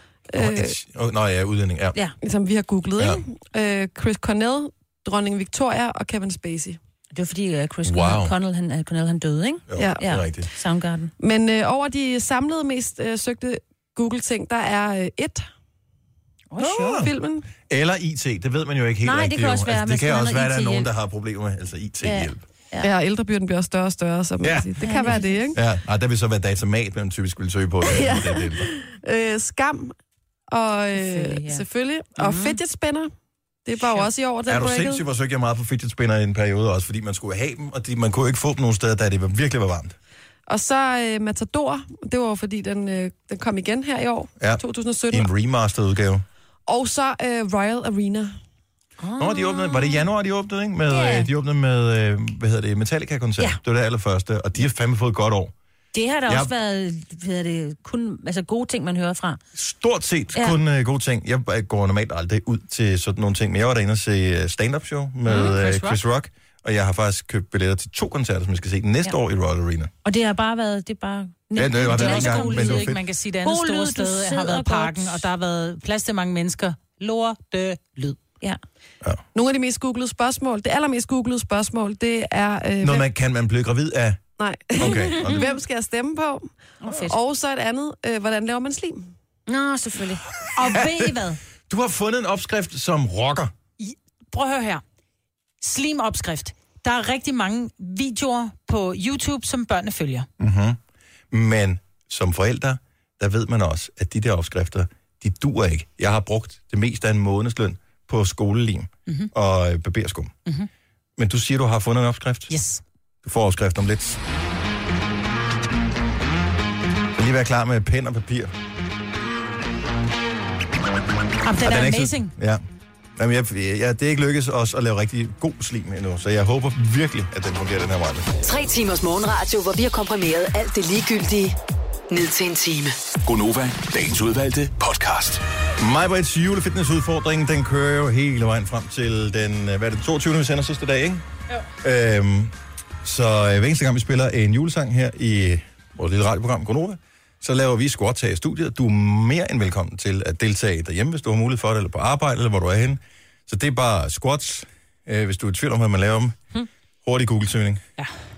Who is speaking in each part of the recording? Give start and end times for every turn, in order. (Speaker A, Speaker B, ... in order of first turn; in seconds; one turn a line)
Speaker A: 0.3-0.7
Speaker B: 0.3-1.9
Speaker A: 2.2-6.8
Speaker C: 7.1-11.1
Speaker B: 7.8-8.3
Speaker B: 9.7-10.5
Speaker A: 11.2-15.5
Speaker C: 16.5-17.1
Speaker B: 16.6-22.4
Speaker A: 16.8-17.5
Speaker C: 19.0-20.9
Speaker C: 22.0-22.9
Speaker A: 22.8-25.6
Speaker B: 24.4-24.7
Speaker C: 24.8-25.6
Speaker B: 25.5-28.7
Speaker A: 27.8-29.9
Speaker A: 30.5-33.1
Speaker C: 30.9-31.6
Speaker C: 32.2-32.6
Speaker A: 33.6-35.0
Speaker B: 34.5-40.0
Speaker A: 40.5-45.3
Speaker B: 44.4-46.2
Speaker A: 46.7-48.4
Speaker C: 49.0-50.0
Speaker B: 49.1-55.5
Speaker C: 50.9-51.3
Speaker C: 55.9-59.4
Speaker B: 56.3-56.5
Speaker B: 59.5-69.9
Speaker C: 65.3-65.5
Speaker D: 65.4-66.0
Speaker C: 70.0-75.2
Speaker B: 71.5-73.0
Speaker D: 71.8-78.2
Speaker A: 79.3-83.1
Speaker B: 82.8-84.2
Speaker A: 84.4-89.1
Speaker B: 84.8-85.5
Speaker C: 85.2-85.5
Speaker C: 86.8-87.1
Speaker C: 89.5-90.3
Speaker B: 90.4-93.5
Speaker D: 90.5-91.4
Speaker D: 93.8-94.8
Speaker D: 95.6-100.3
Speaker B: 100.4-100.8
Speaker B: 101.3-110.3
Speaker B: 111.2-112.5
Speaker D: 112.5-112.8
Speaker B: 113.2-114.2
Speaker B: 117.1-118.5
Speaker D: 121.4-122.3
Speaker B: 121.6-122.6
Speaker B: 123.2-128.3
Speaker E: 128.4-131.6
Speaker E: 132.1-132.9
Speaker F: 133.2-135.4
Speaker B: 135.8-141.2
Speaker B: 141.8-156.4
Speaker B: 157.0-157.8